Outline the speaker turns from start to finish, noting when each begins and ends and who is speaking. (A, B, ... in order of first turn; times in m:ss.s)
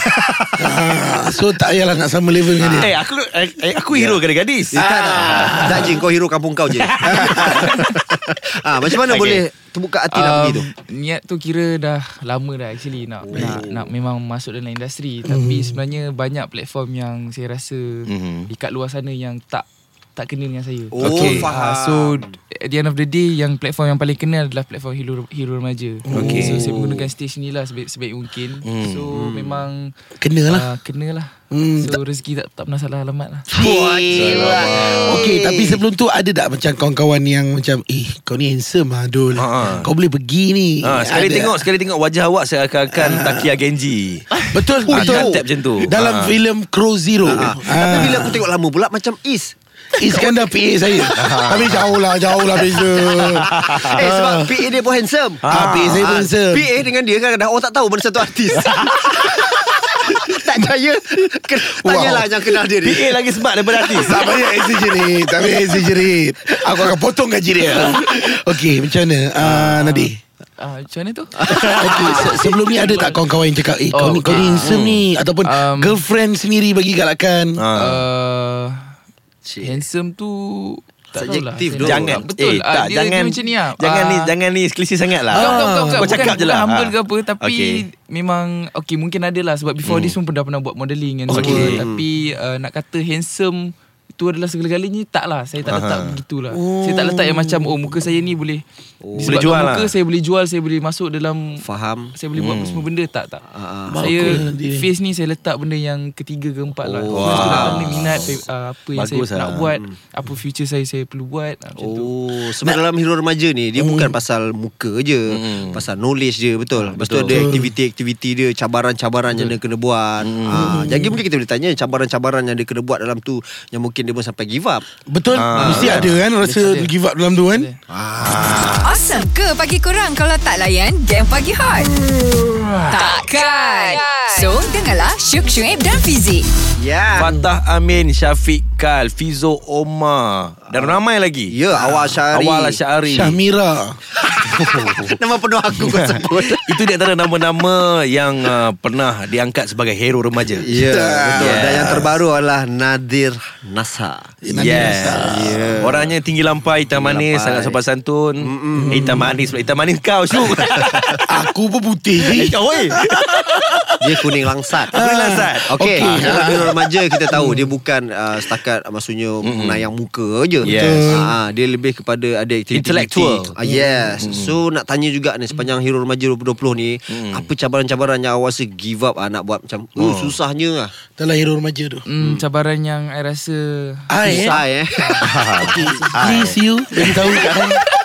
0:00.6-0:02.9 A
0:02.6-0:02.9 B
0:02.6-0:06.0 C
0:03.9-0:04.2 B
0:04.7-0:10.7 B
0:05.2-0:06.0 A
0:06.7-0:07.9 C
0:07.1-0:07.7 A
0:09.0-0:09.4 C
0:10.1-0:29.9 D
0:13.2-0:13.9 B
0:13.3-0:13.6 A
0:15.2-0:15.8 A
0:18.1-0:18.5 C
0:20.9-0:22.4 B
0:21.0-0:21.5 C
0:26.0-0:26.8 A
0:26.1-0:26.7 C
0:28.6-0:29.0 C
0:29.1-0:29.7 B
0:30.2-0:30.7 A
0:30.5-0:33.5 D
0:31.5-0:32.0 A
0:33.5-0:41.7 A
0:33.6-0:35.8 B
0:34.1-0:35.3 C
0:39.4-0:39.9 C
0:40.8-0:44.4 C
0:42.9-0:43.5 A
0:44.5-0:48.4 A
0:44.9-0:45.4 B
0:44.9-0:46.4 C
0:47.2-0:50.4 B
0:50.0-0:54.7 A
0:51.2-0:52.0 C
0:52.6-1:03.2 B
0:53.4-0:54.0 C
0:55.4-0:56.1 C
0:55.4-0:56.7 A
0:58.5-0:59.1 C
1:01.8-1:02.4 A
1:02.8-1:04.2 C
1:03.8-1:05.7 B
1:03.9-1:10.2 A
1:09.4-1:09.8 B
1:09.8-1:13.2 D
1:11.4-1:12.4 B
1:11.5-1:17.7 A
1:13.9-1:14.7 D
1:14.4-1:15.1 C
1:15.4-1:16.0 D
1:17.6-1:18.0 C
1:17.8-1:18.9 D
1:19.4-1:19.8 B
1:19.6-1:24.3 D
1:21.1-1:22.2 B
1:21.8-1:27.8 C
1:25.3-1:26.4 A
1:25.3-1:38.6 D
1:29.9-1:30.2 C
1:31.3-1:31.8 C
1:31.3-1:32.0 B
1:35.7-1:36.2 C
1:36.5-1:38.0 A
1:39.0-1:39.6 B
1:39.2-1:41.6 D
1:39.2-1:39.9 C
1:41.6-1:42.1 B
1:42.2-1:43.4 D
1:42.4-1:42.8 C
1:43.5-1:44.4 B
1:43.9-1:44.9 A
1:44.0-1:52.1 D
1:46.8-1:48.3 B
1:47.1-1:48.3 C
1:49.0-1:49.7 C
1:51.8-2:04.8 B
1:53.8-1:54.1 A
1:55.3-1:55.8 C
1:57.0-1:57.5 C
1:57.3-1:57.7 A
2:00.2-2:00.8 C
2:00.5-2:01.2 A
2:05.1-2:07.7 A
2:05.4-2:06.1 C
2:05.6-2:06.2 B
2:06.4-2:06.9 D
2:07.5-2:07.8 D
2:07.9-2:08.7 B
2:08.2-2:09.0 C
2:08.7-2:11.9 E
2:12.9-2:16.5 E
2:16.8-2:17.3 B
2:17.2-2:23.4 C
2:17.2-2:17.5 A
2:20.7-2:22.8 B
2:23.0-2:24.0 A
2:24.2-2:26.8 B
2:25.9-2:30.7 C
2:30.6-2:34.3 B
2:30.7-2:32.0 A
2:31.4-2:32.1 C
2:34.4-2:35.8 A
2:34.6-2:41.2 C
2:35.3-2:36.1 B
2:37.0-2:37.8 B
2:38.4-2:39.2 B
2:38.8-2:39.3 A
2:40.6-2:41.2 B
2:41.3-2:43.9 A
2:42.3-2:43.7 C
2:44.0-2:45.0 B
2:44.9-2:46.7 A
2:44.9-2:46.8 C
2:45.7-3:00.9 B
2:49.4-2:49.9 C
2:50.6-2:51.3 A
2:50.6-2:51.3 C
2:52.7-2:53.5 C
2:53.6-2:54.1 A
2:54.2-2:54.6 C
2:57.1-2:57.5 C
3:00.0-3:00.4 C
3:01.2-3:02.0 A
3:02.1-3:06.4 D
3:02.2-3:02.4 B
3:04.1-3:04.6 A
3:04.3-3:06.6 B
3:05.2-3:05.8 C
3:05.7-3:07.8 A
3:07.3-3:07.6 D